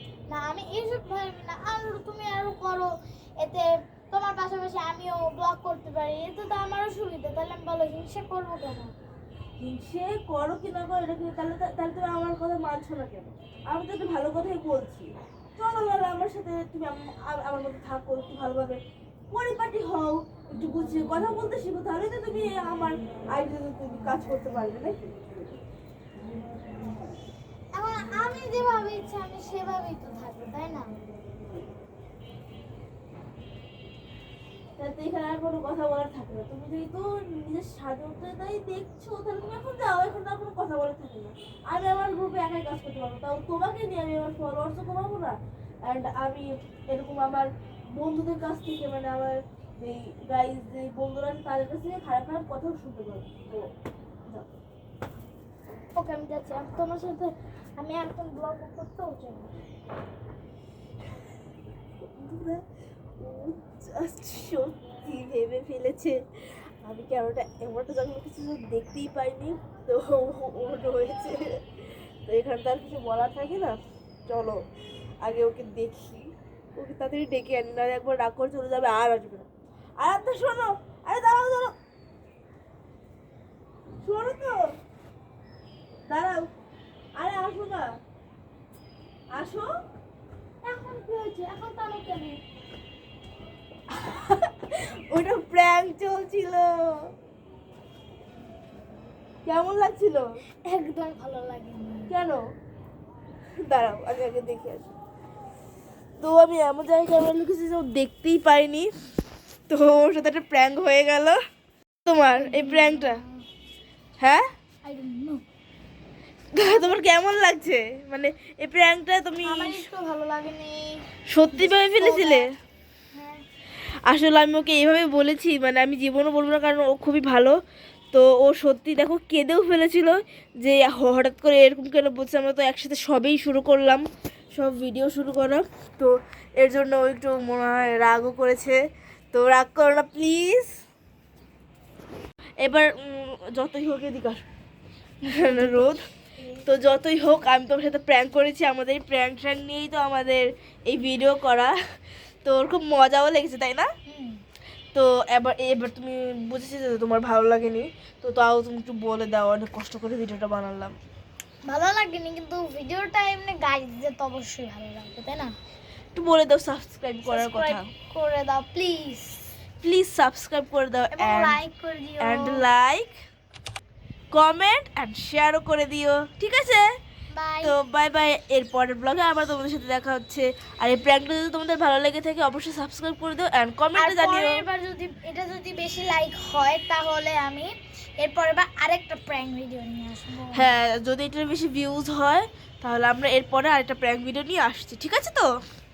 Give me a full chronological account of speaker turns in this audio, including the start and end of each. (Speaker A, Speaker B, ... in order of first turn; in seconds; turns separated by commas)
Speaker A: 0.3-8.9, Speaker B: 9.6-25.3, Speaker A: 27.7-31.0, Speaker B: 34.8-53.7, Speaker B: 54.3-54.6, Speaker A: 56.0-59.6, Speaker B: 62.1-62.6, Speaker B: 63.2-66.2, Speaker B: 66.8-71.6, Speaker B: 72.2-74.6, Speaker B: 75.2-79.5, Speaker B: 80.0-81.7, Speaker B: 84.0-84.6, Speaker B: 86.1-86.5, Speaker B: 87.2-87.9, Speaker B: 89.3-89.7, Speaker A: 90.6-92.4, Speaker B: 93.9-97.1, Speaker B: 99.4-100.3, Speaker A: 100.6-102.1, Speaker B: 102.1-102.4, Speaker B: 103.6-104.8, Speaker B: 106.2-108.9, Speaker B: 109.7-111.4, Speaker B: 112.0-113.2, Speaker A: 112.3-113.4, Speaker B: 114.2-114.4, Speaker A: 114.8-115.4, Speaker B: 116.5-119.8, Speaker A: 116.6-117.0, Speaker A: 119.4-122.5, Speaker B: 121.3-122.5, Speaker A: 123.1-123.4, Speaker B: 124.1-127.5, Speaker B: 128.1-134.0, Speaker B: 134.5-138.8, Speaker B: 139.3-140.7, Speaker B: 142.6-144.4, Speaker A: 145.2-146.6, Speaker B: 145.3-146.0, Speaker B: 146.6-151.8, Speaker B: 152.4-153.9, Speaker A: 154.1-154.4, Speaker B: 154.9-160.9, Speaker A: 161.7-165.5, Speaker B: 166.1-167.8, Speaker A: 167.2-169.5, Speaker B: 169.8-171.6, Speaker A: 171.1-172.6, Speaker B: 172.2-173.1, Speaker B: 174.3-176.8, Speaker A: 177.3-177.7, Speaker B: 177.6-184.6, Speaker A: 183.9-190.7, Speaker B: 190.5-195.5